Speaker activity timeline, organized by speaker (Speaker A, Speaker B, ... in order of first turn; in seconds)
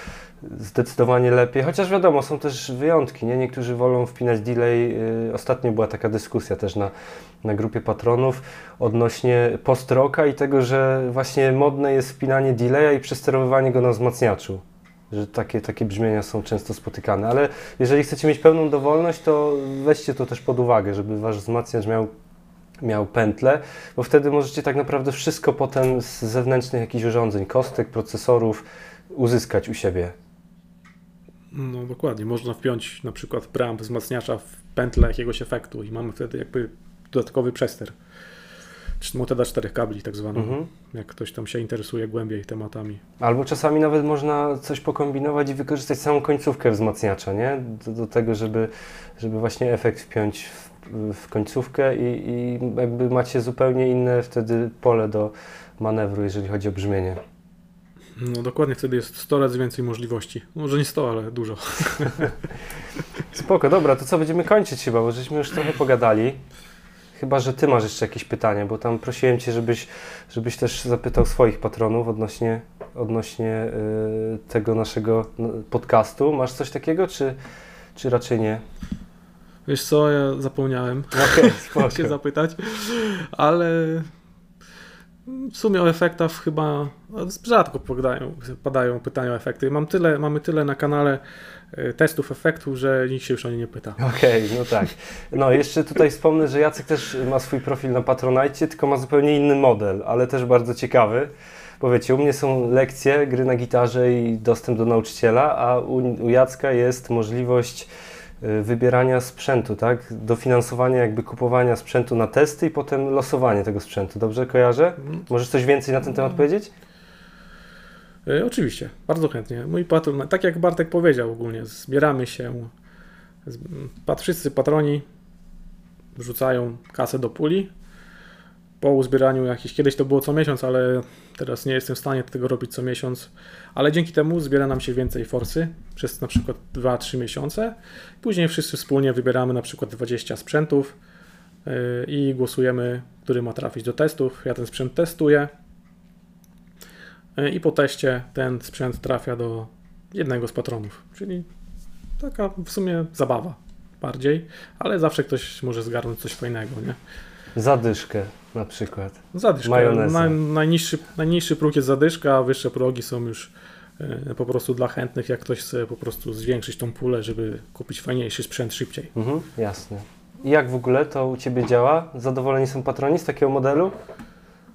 Speaker A: 0.4-22.1, 22.8-30.1, 40.3-40.7, 43.2-57.2, 63.3-66.4, 67.2-77.3, 78.0-78.6, 81.1-82.1, 94.0-107.9, 108.4-116.7, 157.5-160.4, 169.1-173.9
Speaker B: 31.5-38.0, 39.0-43.0, 58.2-62.4, 79.7-84.1, 85.2-94.0, 118.2-122.7, 123.4-125.0, 126.2-127.7, 128.8-140.9, 141.6-145.5, 147.3-151.5, 152.2-157.0, 159.3-169.1